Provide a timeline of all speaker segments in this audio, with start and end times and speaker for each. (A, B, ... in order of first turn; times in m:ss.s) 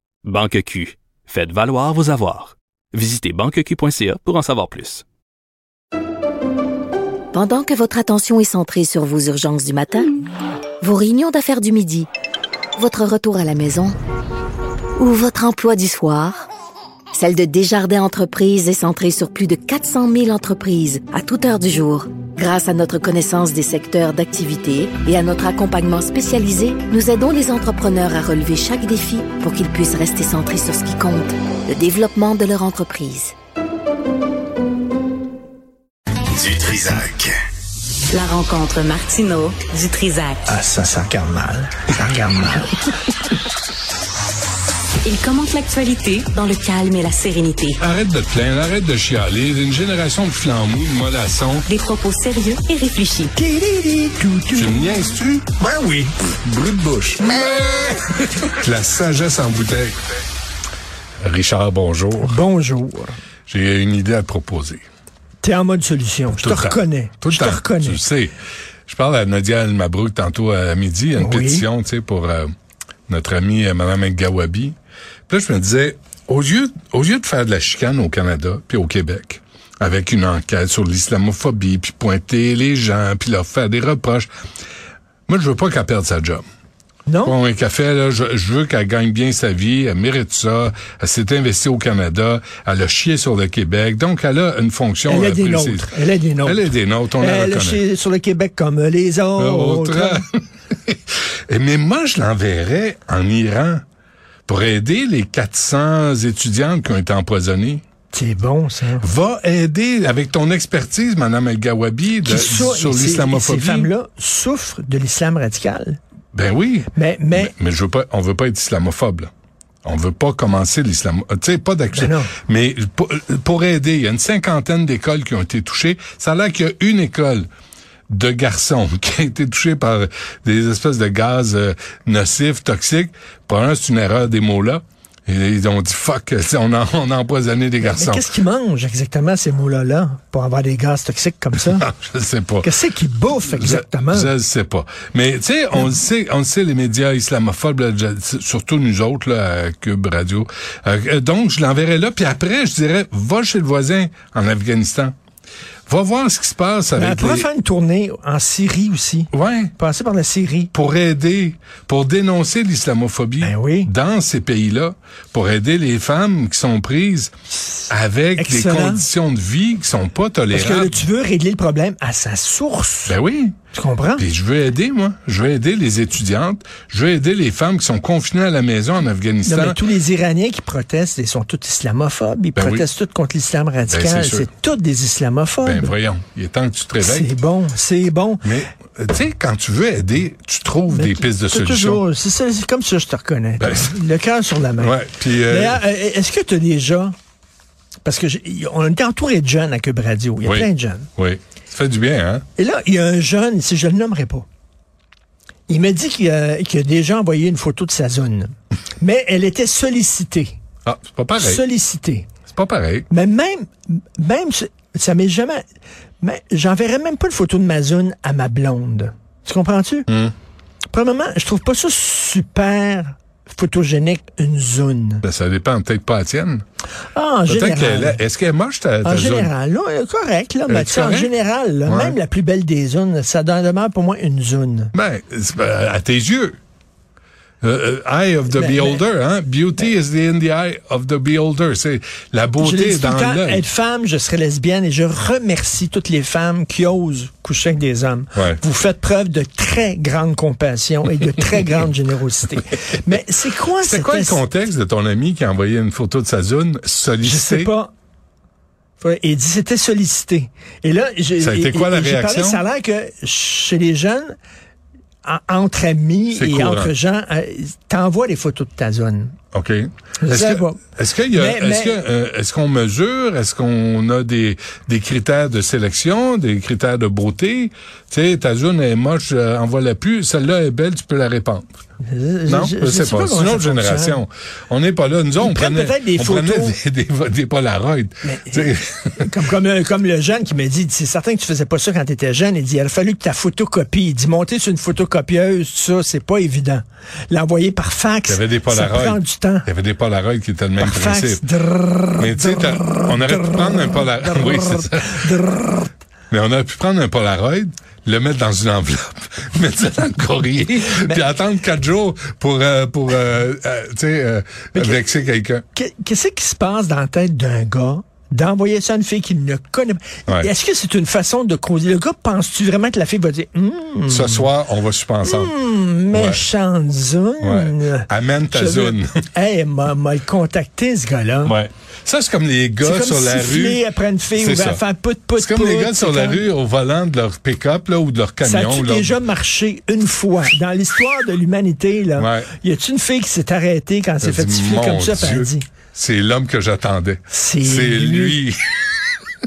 0:00.2-0:05.0 A
0:07.3-0:10.1 B
0:10.8-0:12.1 B
0:12.8-0:14.0 B
0:15.0-0:16.5 B
0:17.1-0:33.3 B
0:36.5-0:37.2 C
0:38.1-0:40.4 D
0:40.5-0:42.8 E
0:45.0-0:47.8 D
0:47.8-0:51.7 C
0:51.7-0:53.3 D
0:53.4-0:54.9 E
0:54.5-0:55.5 C
0:55.6-0:56.1 E
0:56.4-1:00.0 C
1:01.2-1:02.4 C
1:02.2-1:03.2 E
1:03.5-1:04.8 C
1:05.4-1:08.0 E
1:06.4-1:08.4 C
1:08.9-1:12.5 C
1:11.2-1:11.7 E
1:13.1-1:14.8 C
1:15.3-1:24.3 C
1:25.3-1:26.4 C
1:27.1-1:27.4 E
1:27.2-1:35.9 C
1:35.1-1:40.2 E
1:36.4-1:37.8 C
1:39.4-1:40.4 C
1:40.9-1:43.8 C
1:44.5-1:47.8 C
1:48.1-1:49.1 E
1:49.0-1:53.9 C
1:52.2-1:56.0 E
1:56.3-1:59.3 C
1:56.9-1:57.5 E
1:59.8-2:07.5 C
2:01.9-2:02.3 E
2:08.1-2:18.3 C
2:17.8-2:21.8 E
2:21.6-2:22.7 C
2:22.6-2:24.3 E
2:23.5-2:35.1 C
2:35.9-2:37.5 C
2:37.0-2:40.7 E
2:39.3-2:39.7 C
2:40.7-2:47.3 C
2:43.4-2:43.9 E
2:47.9-2:51.0 C
2:48.4-2:49.1 E
2:50.5-2:53.2 E
2:53.1-2:53.6 C
2:53.7-2:54.2 E
2:54.2-2:59.8 C
2:59.4-3:06.0 E
3:02.6-3:02.8 C
3:03.9-3:04.5 C
3:05.6-3:07.3 C
3:07.0-3:08.5 E
3:08.4-3:12.0 C
3:10.9-3:17.1 E
3:13.6-3:14.0 C
3:14.8-3:15.8 C
3:18.0-3:21.1 E
3:20.4-3:22.4 C
3:22.6-3:24.5 E
3:25.7-3:30.6 E
3:30.8-3:31.6 C
3:31.4-3:32.3 E
3:32.5-3:33.1 C
3:33.1-3:35.6 E
3:36.2-3:40.1 E
3:40.1-3:40.3 C
3:40.9-3:45.2 E
3:45.2-3:46.6 C
3:47.1-3:48.2 E
3:47.5-3:49.5 C
3:49.0-3:54.9 E
3:50.7-3:51.3 C
3:51.9-3:52.2 C
3:54.9-3:56.6 C
3:57.6-4:03.6 C
3:58.5-3:59.0 E
4:02.6-4:14.4 E
4:08.4-4:08.6 C
4:13.8-4:17.7 C
4:17.2-4:17.9 E
4:19.0-4:24.3 E
4:21.4-4:22.6 C
4:25.2-4:29.4 E
4:26.3-4:26.9 C
4:29.5-4:41.6 C
4:30.2-4:32.0 E
4:42.0-4:44.2 E
4:42.5-4:49.3 C
4:45.4-4:46.8 E
4:48.2-4:59.7 E
4:58.3-5:01.4 C
5:00.8-5:05.9 E
5:02.2-5:05.2 C
5:06.3-5:15.6 C
5:14.8-5:15.0 E
5:15.8-5:24.5 E
5:24.1-5:25.5 C
5:25.2-5:31.6 E
5:26.1-5:26.4 C
5:27.4-5:29.1 C
5:31.5-5:33.8 C
5:32.8-5:36.5 E
5:34.4-5:34.8 C
5:35.4-5:39.2 C
5:38.4-5:45.7 E
5:42.2-5:42.5 C
5:44.2-5:48.9 C
5:47.3-5:48.4 E